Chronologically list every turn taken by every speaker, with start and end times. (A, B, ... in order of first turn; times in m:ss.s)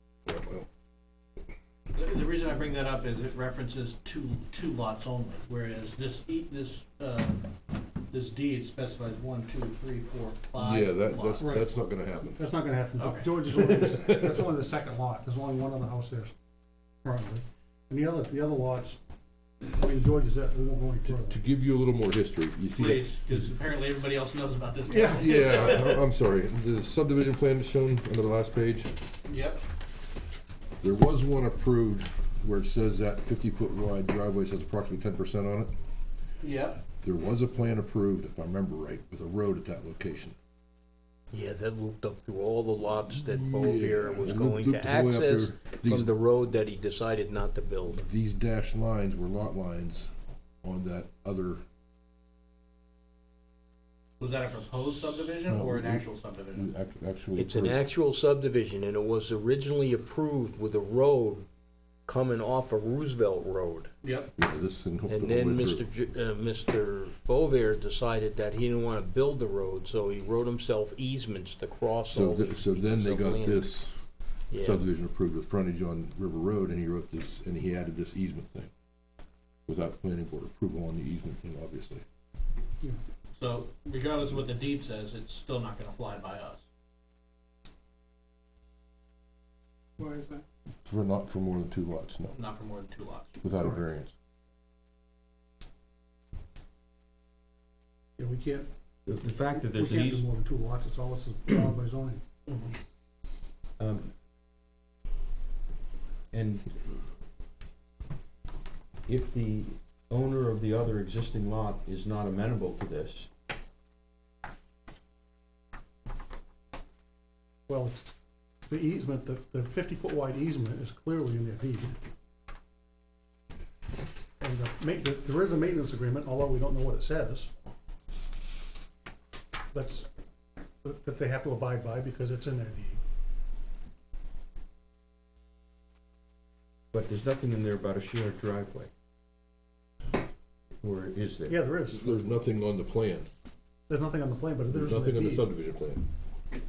0:00.3-0:00.7 A
0:01.9-0:07.5 B
0:08.1-0:11.6 B
0:10.6-0:12.4 A
0:11.4-0:11.7 C
0:12.2-0:16.3 C
0:13.0-0:13.3 B
0:13.8-0:14.2 A
0:17.0-0:19.0 C
0:19.7-0:21.4 C
0:21.1-0:23.2 A
0:22.8-0:25.9 B
0:24.9-0:25.5 C
0:25.1-0:29.0 A
0:29.3-0:29.6 B
0:30.8-0:35.7 A
0:36.4-0:36.8 B
0:37.0-0:40.4 A
0:41.3-0:48.0 D
0:43.2-0:46.1 A
0:48.0-0:51.6 A
0:54.2-0:56.7 B
0:55.5-0:57.8 A
0:57.4-1:01.5 D
1:02.1-1:03.9 D
1:04.0-1:04.3 B
1:04.4-1:05.9 A
1:05.1-1:13.7 D
1:12.1-1:14.0 A
1:14.5-1:14.9 D
1:14.6-1:18.7 A
1:19.7-1:22.0 A
1:23.3-1:26.6 B
1:30.0-1:30.4 C
1:30.8-1:32.4 A
1:32.3-1:33.4 B
1:33.4-1:34.2 A
1:38.2-1:38.7 C
1:39.1-1:40.3 E
1:39.5-1:42.2 C
1:42.5-1:42.8 B
1:43.8-1:44.1 E
1:46.3-1:46.7 E
1:49.1-1:53.3 E
1:57.7-1:58.1 C
1:58.7-2:02.0 C
2:04.4-2:07.5 C
2:09.7-2:10.1 C
2:10.8-2:13.0 C
2:16.9-2:18.9 E
2:20.8-2:21.6 E
2:21.5-2:22.2 C
2:21.9-2:23.3 A
2:23.9-2:25.5 C
2:24.7-2:26.1 A